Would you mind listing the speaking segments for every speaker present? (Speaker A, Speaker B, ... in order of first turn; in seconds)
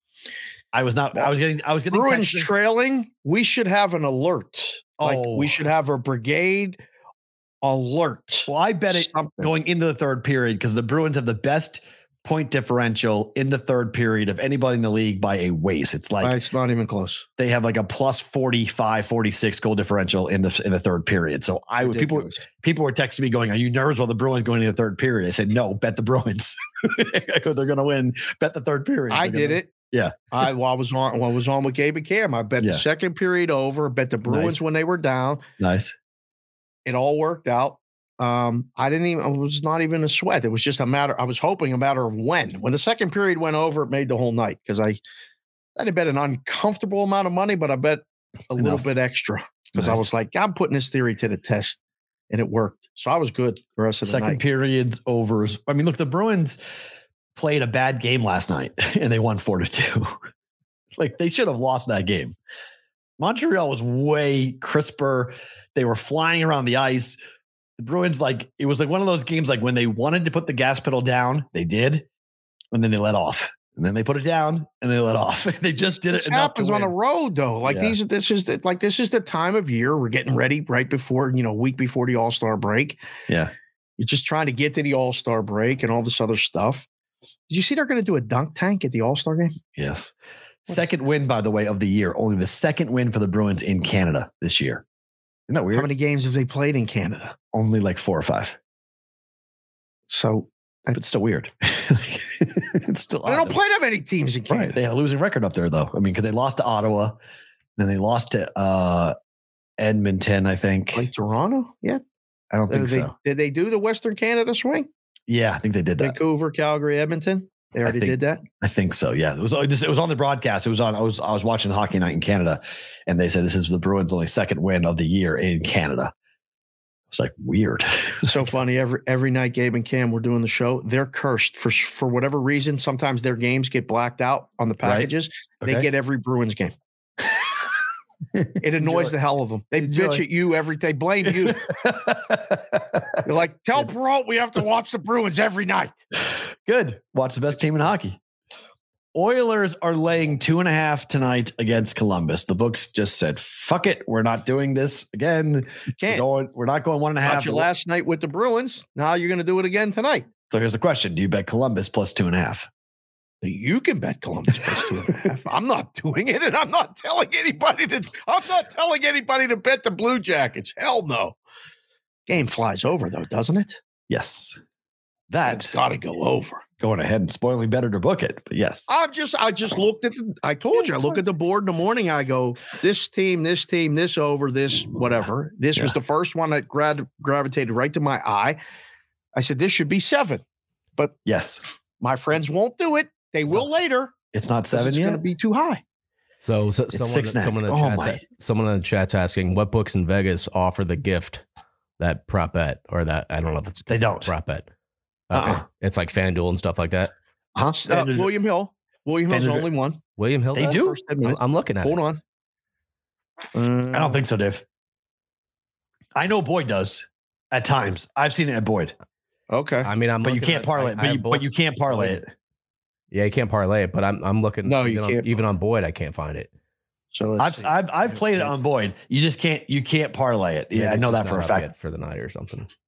Speaker A: 0.7-2.5, 5.0-5.6, 8.5-16.4, 17.4-30.2, 34.2-34.6, 35.6-35.9, 48.6-48.9, 49.8-50.1, 54.0-56.6, 57.3-60.2, 61.0-62.4, 63.2-67.2, 67.8-72.0, 72.7-76.9, 77.7-78.0, 89.8-90.1, 90.7-94.8, 95.5-95.9, 97.5-98.6, 100.9-103.6, 104.5-107.2, 107.8-109.1, 109.8-111.1, 112.5-113.1, 115.3-116.2, 117.8-126.1, 127.1-128.5, 134.8-135.1, 135.6-135.9, 138.3-139.1, 139.8-140.2, 141.3-143.1, 146.2-148.2, 149.1-157.7, 160.5-162.7, 174.1-174.6, 175.3-175.8, 176.8-178.9, 180.7-181.2, 191.2-191.6, 194.3-195.2, 196.9-198.2, 203.9-204.3, 205.3-205.6, 207.5-208.3, 209.3-209.7, 210.5-211.0, 213.9-214.6, 216.1-218.9, 220.2-222.3, 227.4-231.7
Speaker B: 1.9-6.8, 7.6-9.5, 16.2-17.2, 21.8-22.4, 29.1-29.7, 30.3-35.4, 36.9-45.0, 45.8-54.4, 76.1-83.0, 84.0-86.9, 87.5-89.5, 95.7-97.3, 100.1-101.2, 103.2-104.8, 110.9-112.0, 112.7-114.9, 116.0-118.4, 128.2-136.7, 138.6-141.7, 143.2-146.0, 155.9-156.2, 157.2-160.3, 163.4-171.4, 172.3-173.8, 175.4-176.6, 178.9-188.6, 189.3-190.4, 192.0-194.1, 194.7-195.8, 207.8-210.0, 210.6-212.2, 213.5-214.2, 219.5-219.9, 224.6-225.3, 227.1-228.5
Speaker C: 196.4-201.4, 202.0-204.7, 205.3-207.1, 210.2-212.0, 219.8-222.2, 223.1-226.5, 230.7-232.7